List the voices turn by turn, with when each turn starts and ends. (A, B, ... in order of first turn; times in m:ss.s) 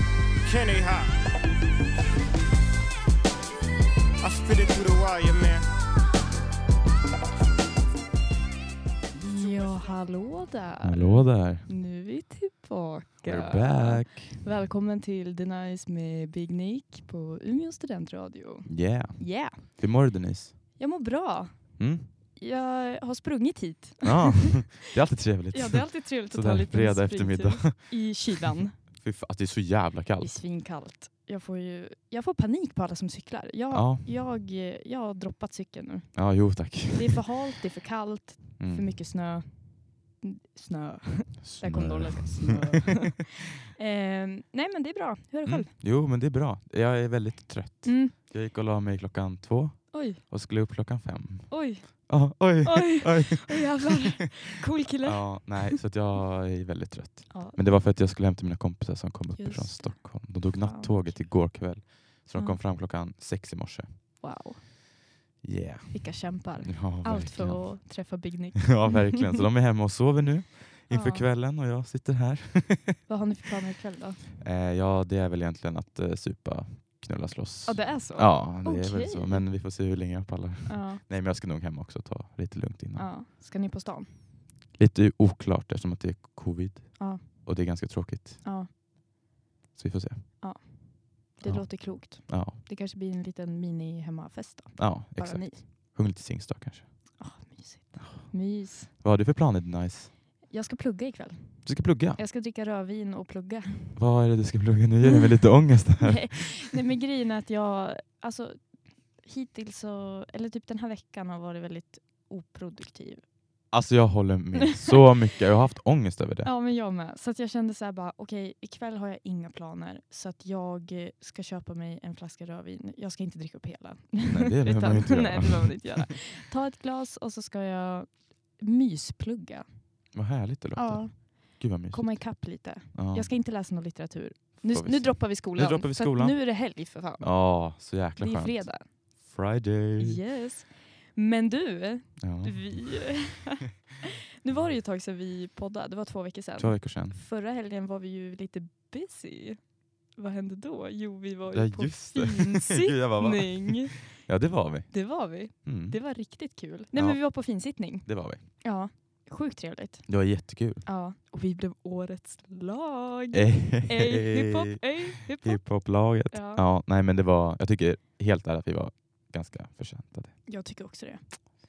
0:00.4-0:01.2 A
0:04.2-0:05.6 A
0:09.1-0:19.8 B
0:10.8-0:11.7 C
0:13.2-0:14.4 C
0:18.6-0:20.8 C
0:20.8-0:24.8 B
0:21.8-0:22.1 C
0:24.0-0:28.2 C
0:25.5-0:28.8 B
0:28.8-0:30.4 C
0:30.2-0:45.7 B
0:33.7-0:34.1 C
0:36.1-0:37.2 C
0:38.6-0:38.9 C
0:41.4-0:42.6 C
0:45.4-0:54.2 C
0:47.8-0:48.1 B
0:49.9-0:50.2 B
0:51.5-0:55.8 B
0:55.0-1:04.0 C
0:57.3-0:57.6 B
0:59.4-1:02.6 B
1:04.2-1:04.6 B
1:05.4-1:13.1 C
1:05.9-1:09.4 B
1:10.9-1:11.3 B
1:13.1-1:14.2 B
1:14.4-1:23.1 C
1:17.6-1:19.5 B
1:20.7-1:21.0 B
1:23.0-1:24.2 B
1:24.8-1:28.5 C
1:27.0-1:27.8 B
1:28.4-1:28.7 B
1:29.8-1:30.6 C
1:30.4-1:35.9 B
1:31.4-1:32.6 C
1:34.8-1:37.2 C
1:37.2-1:38.9 B
1:38.0-1:40.2 C
1:40.5-1:44.0 B
1:41.6-1:42.2 C
1:44.0-1:46.5 C
1:46.0-1:53.3 B
1:53.7-1:56.5 C
1:56.4-2:10.0 B
2:04.3-2:05.8 C
2:10.1-2:13.3 C
2:10.8-2:19.3 B
2:14.6-2:20.2 C
2:20.0-2:34.3 B
2:22.2-2:23.2 C
2:26.6-2:27.2 C
2:31.5-2:38.4 C
2:34.9-2:46.6 B
2:40.1-2:40.9 C
2:43.3-2:50.4 C
2:50.5-2:51.4 B